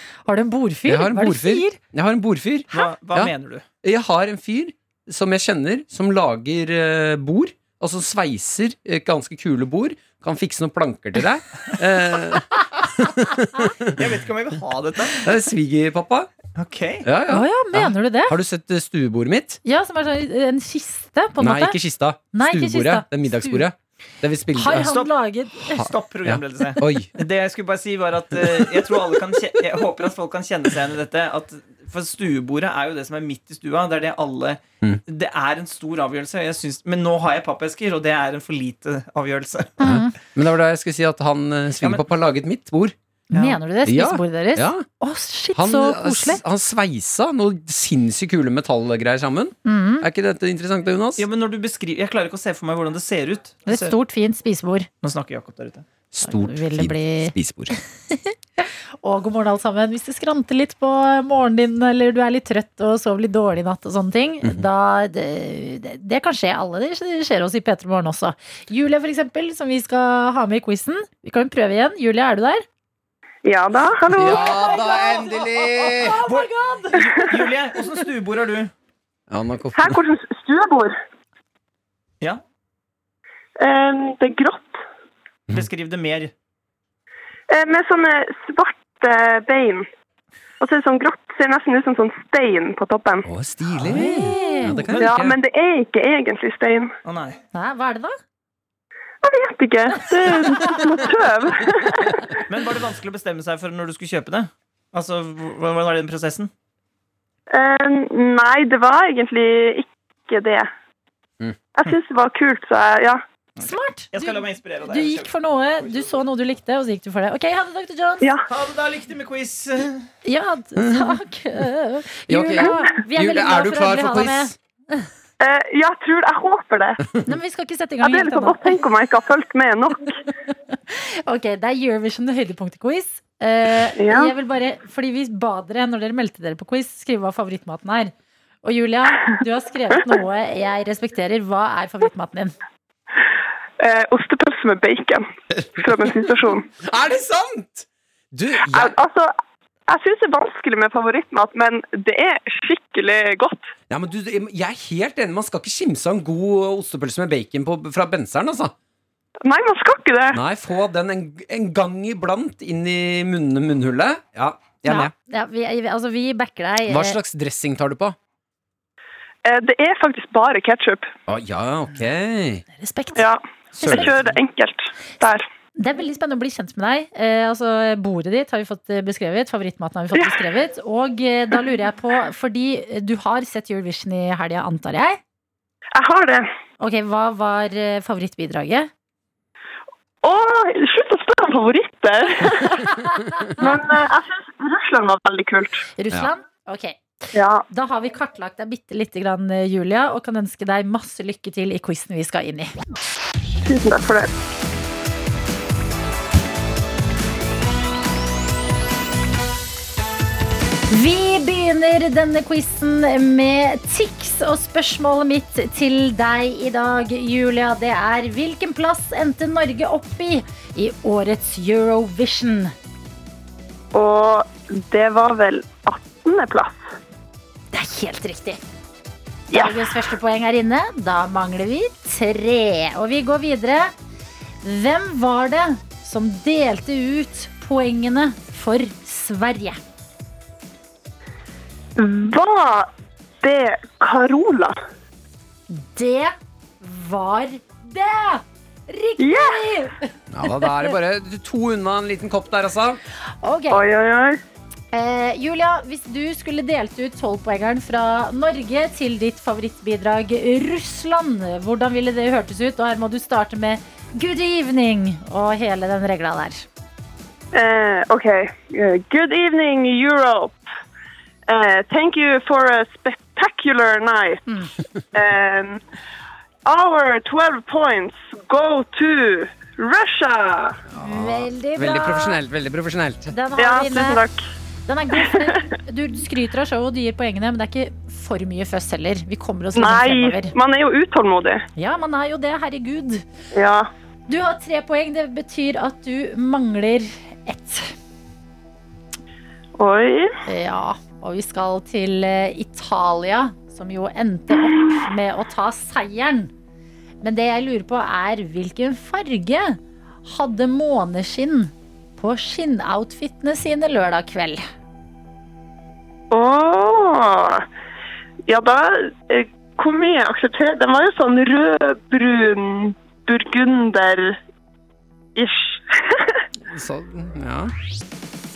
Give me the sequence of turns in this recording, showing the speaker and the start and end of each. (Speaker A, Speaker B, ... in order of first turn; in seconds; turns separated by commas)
Speaker A: 0.2-1.8, Speaker B: 0.9-14.0, Speaker C: 2.7-3.6, Speaker C: 13.9-15.3, Speaker B: 15.2-16.3, Speaker C: 16.5-17.1, Speaker B: 17.0-19.6, Speaker A: 17.3-18.4, Speaker A: 19.6-21.8, Speaker B: 21.4-24.9, Speaker A: 22.3-23.6, Speaker A: 24.5-25.9, Speaker C: 24.7-25.1, Speaker B: 25.7-27.1, Speaker C: 25.7-39.8, Speaker B: 28.4-28.9, Speaker A: 39.8-40.1, Speaker B: 39.8-42.9, Speaker A: 43.3-46.4, Speaker C: 43.3-43.6, Speaker B: 43.9-44.9, Speaker B: 45.5-51.2, Speaker A: 49.6-50.0, Speaker C: 51.2-53.9, Speaker A: 53.6-54.9, Speaker C: 55.0-55.9, Speaker B: 56.1-57.8, Speaker A: 56.2-57.3, Speaker A: 58.1-72.6, Speaker D: 73.4-74.5, Speaker B: 74.1-76.2, Speaker A: 74.3-77.3, Speaker C: 74.4-75.2, Speaker C: 76.2-78.7, Speaker B: 79.3-80.0, Speaker D: 79.7-81.0, Speaker D: 83.6-84.8, Speaker C: 85.5-86.3, Speaker D: 87.5-89.9, Speaker D: 90.6-93.3, Speaker B: 93.2-95.4, Speaker A: 93.8-94.8, Speaker D: 94.9-96.9, Speaker C: 97.0-97.4, Speaker A: 97.5-98.1, Speaker D: 99.2-102.4, Speaker C: 102.5-106.5, Speaker D: 107.5-110.7, Speaker D: 111.7-113.2, Speaker A: 113.6-118.3, Speaker C: 113.6-115.3, Speaker C: 115.8-116.0, Speaker D: 118.2-118.5, Speaker C: 118.5-120.1, Speaker A: 120.2-125.1, Speaker B: 120.8-121.2, Speaker B: 122.3-124.5, Speaker D: 125.4-127.1, Speaker A: 127.2-128.8, Speaker D: 128.0-130.1, Speaker A: 130.9-142.5, Speaker D: 134.0-134.3, Speaker D: 143.8-146.7, Speaker B: 146.8-148.9, Speaker D: 148.7-149.3, Speaker D: 149.9-153.7, Speaker B: 153.9-158.7, Speaker D: 159.4-160.4, Speaker B: 160.3-165.1, Speaker A: 164.8-167.2, Speaker B: 166.9-168.2, Speaker D: 169.4-171.1, Speaker B: 171.3-172.6, Speaker A: 172.8-174.1, Speaker D: 173.2-175.5, Speaker B: 173.8-174.3, Speaker A: 175.8-185.2, Speaker D: 185.9-186.5, Speaker A: 186.8-188.9, Speaker D: 190.2-192.9, Speaker A: 192.8-193.7, Speaker D: 193.6-195.8, Speaker A: 196.0-197.0, Speaker D: 197.3-197.6, Speaker A: 197.7-202.7, Speaker D: 203.6-204.3, Speaker A: 210.9-222.7, Speaker D: 223.9-226.9, Speaker A: 227.7-228.6, Speaker D: 229.5-229.8, Speaker A: 229.5-233.9, Speaker A: 234.6-239.8, Speaker D: 242.0-242.9, Speaker D: 243.4-244.8, Speaker A: 245.7-250.9, Speaker D: 249.2-249.6, Speaker B: 250.3-253.0, Speaker A: 253.4-253.8, Speaker D: 253.7-254.4, Speaker A: 254.9-266.6, Speaker D: 267.5-270.6, Speaker D: 271.5-274.4, Speaker D: 275.1-275.8, Speaker D: 276.6-280.8, Speaker B: 280.9-283.4, Speaker A: 281.0-282.4, Speaker A: 283.3-284.2, Speaker D: 283.6-284.4, Speaker A: 284.9-290.5, Speaker D: 285.1-285.7, Speaker D: 289.8-291.6, Speaker A: 291.8-293.2, Speaker D: 293.5-293.9, Speaker A: 294.3-297.9, Speaker D: 299.8-300.3, Speaker A: 300.5-306.5, Speaker A: 307.2-314.6, Speaker D: 316.3-317.6, Speaker D: 318.5-324.4, Speaker D: 325.4-326.4, Speaker B: 326.6-327.7